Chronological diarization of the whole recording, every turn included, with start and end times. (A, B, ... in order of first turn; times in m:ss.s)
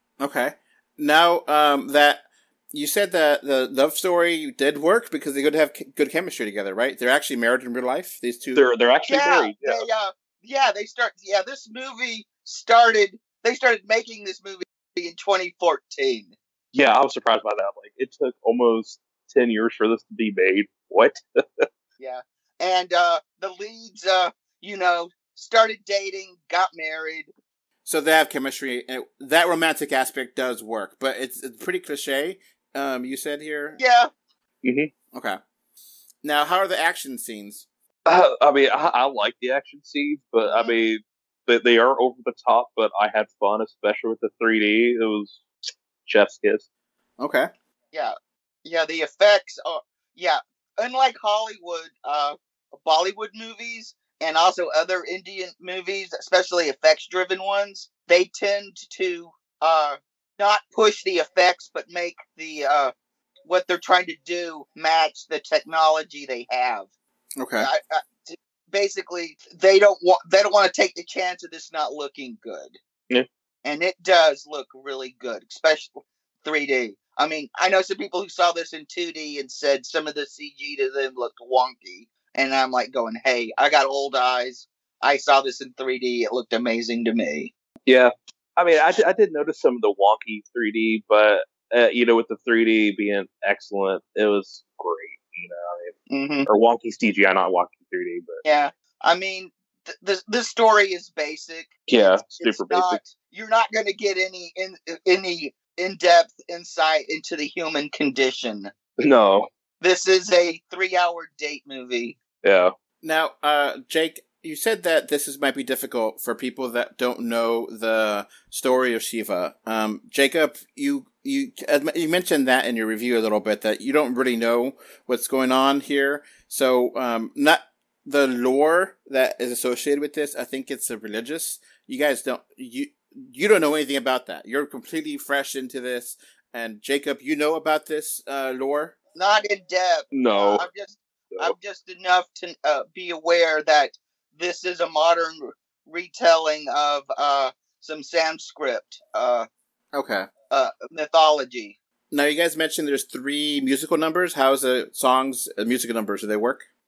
0:00.2-0:08.6 A
0:08.5-0:09.8 B
0:09.1-0:16.3 C
0:16.7-0:21.6 B
0:22.0-0:27.3 C
0:27.8-0:33.8 A
0:33.8-0:34.1 C
0:34.6-0:34.9 B
0:36.2-0:37.6 A
0:38.1-0:45.5 B
0:40.4-0:40.7 C
0:46.0-0:46.6 B
0:47.2-0:47.5 A
0:48.6-1:02.9 C
1:03.4-1:06.9 C
1:07.4-1:07.7 A
1:07.6-1:12.8 C
1:13.6-1:27.5 C
1:27.9-1:35.9 B
1:36.1-1:36.5 C
1:36.4-1:38.4 B
1:38.4-1:48.7 C
1:41.9-1:43.0 B
1:49.0-1:49.5 B
1:49.8-1:52.2 C
1:52.4-1:52.7 B
1:53.0-2:19.0 A
2:19.2-2:29.5 C
2:20.1-2:20.7 B
2:29.9-2:30.3 A
2:30.5-2:31.7 C
2:32.1-2:36.7 A